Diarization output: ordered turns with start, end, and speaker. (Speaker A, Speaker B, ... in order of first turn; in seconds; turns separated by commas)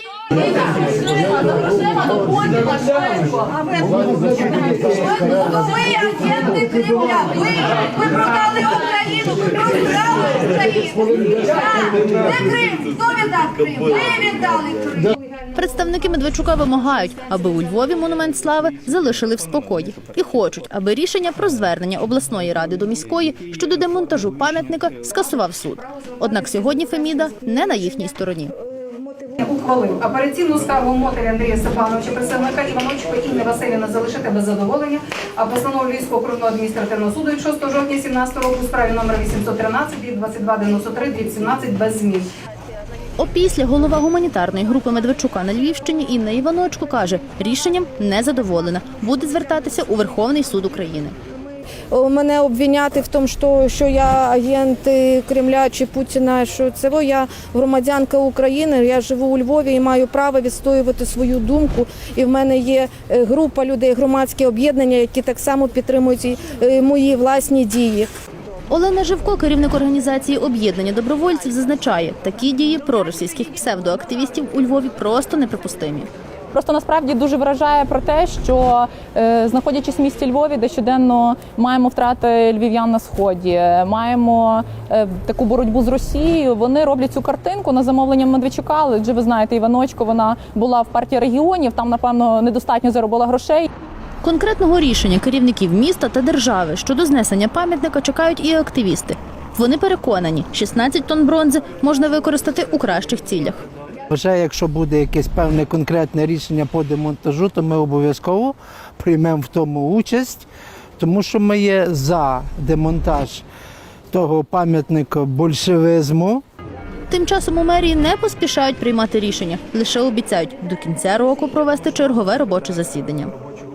Speaker A: 0.6-15.0, Speaker B: 15.5-28.5, Speaker C: 28.8-29.4, Speaker D: 29.4-42.3, Speaker B: 43.2-51.1, Speaker C: 51.9-68.1, Speaker B: 68.7-76.1, Speaker E: 76.5-93.7, Speaker B: 94.2-103.6, Speaker F: 104.1-110.5, Speaker F: 111.0-113.4, Speaker F: 114.1-116.4, Speaker B: 117.1-123.3